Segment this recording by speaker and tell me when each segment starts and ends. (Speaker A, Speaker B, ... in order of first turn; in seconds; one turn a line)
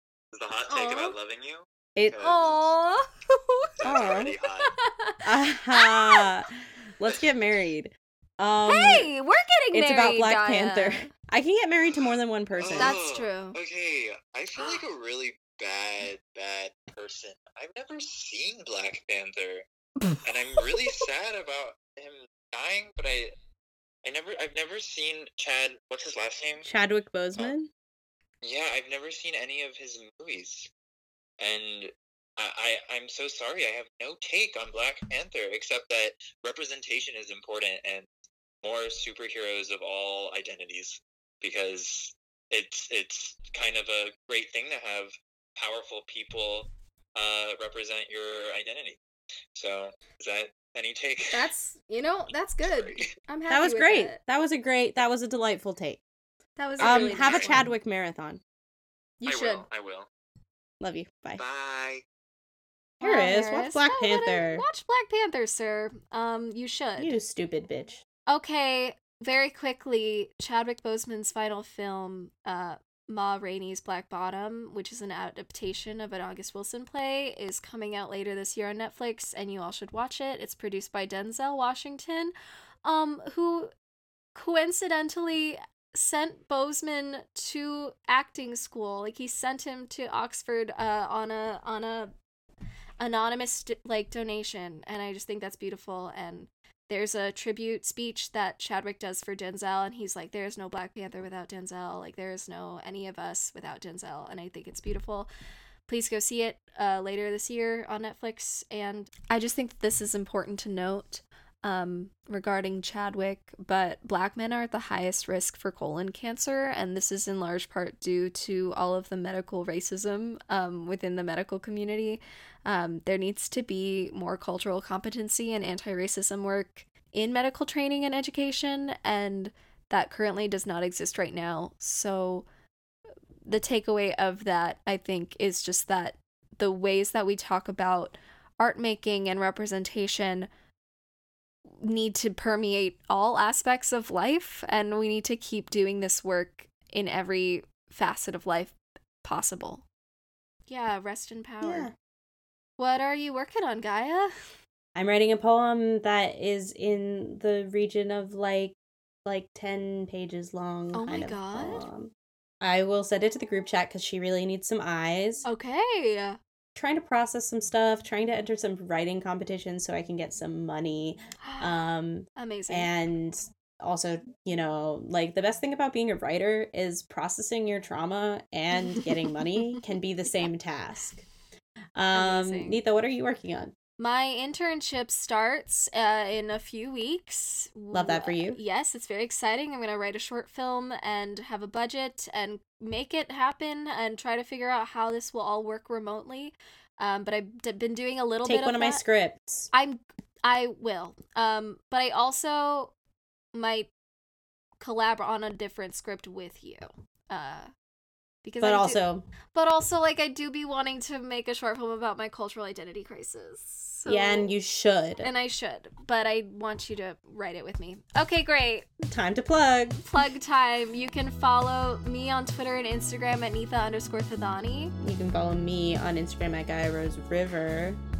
Speaker A: 0.3-2.7
Speaker B: 0.7-1.1
Speaker B: 2.2-5.2
Speaker A: 3.8-4.7
Speaker C: 3.8-4.3
Speaker C: 5.2-9.1
Speaker B: 5.7-6.3
Speaker B: 8.7-11.1
Speaker C: 9.7-12.9
Speaker A: 12.6-19.6
Speaker B: 12.8-13.6
Speaker A: 20.2-23.3
Speaker A: 24.0-26.6
Speaker C: 26.6-27.7
Speaker A: 28.4-30.7
Speaker A: 31.4-38.1
Speaker A: 38.6-49.0
Speaker A: 49.5-51.5
Speaker B: 51.3-54.2
Speaker A: 52.6-53.1
Speaker C: 53.5-56.0
Speaker B: 56.6-57.6
Speaker A: 56.8-57.7
Speaker C: 56.8-58.4
Speaker B: 59.2-59.7
Speaker A: 59.2-60.1
Speaker C: 60.8-61.4
Speaker A: 61.4-62.0
Speaker C: 63.0-64.6
Speaker B: 63.0-67.1
Speaker C: 67.0-68.0
Speaker B: 68.3-82.3
Speaker B: 82.8-83.7
Speaker B: 84.3-92.1
Speaker B: 93.0-105.3
Speaker B: 105.9-132.4
Speaker B: 133.4-140.5
Speaker B: 141.7-149.8
Speaker B: 150.7-151.9
Speaker C: 151.6-151.9
Speaker B: 152.8-154.3
Speaker C: 154.9-165.4
Speaker B: 160.9-161.8
Speaker B: 165.4-166.4
Speaker C: 166.7-181.2
Speaker B: 171.4-172.9
Speaker C: 181.9-183.7
Speaker B: 182.1-182.8
Speaker B: 184.0-199.0
Speaker C: 187.9-188.6
Speaker C: 198.4-199.7
Speaker B: 199.7-202.9
Speaker B: 203.5-203.9
Speaker B: 204.8-207.7
Speaker B: 208.4-214.5
Speaker C: 208.6-209.2
Speaker C: 214.1-215.3
Speaker B: 215.2-218.9
Speaker C: 219.0-220.0
Speaker B: 220.0-224.9
Speaker C: 225.0-228.0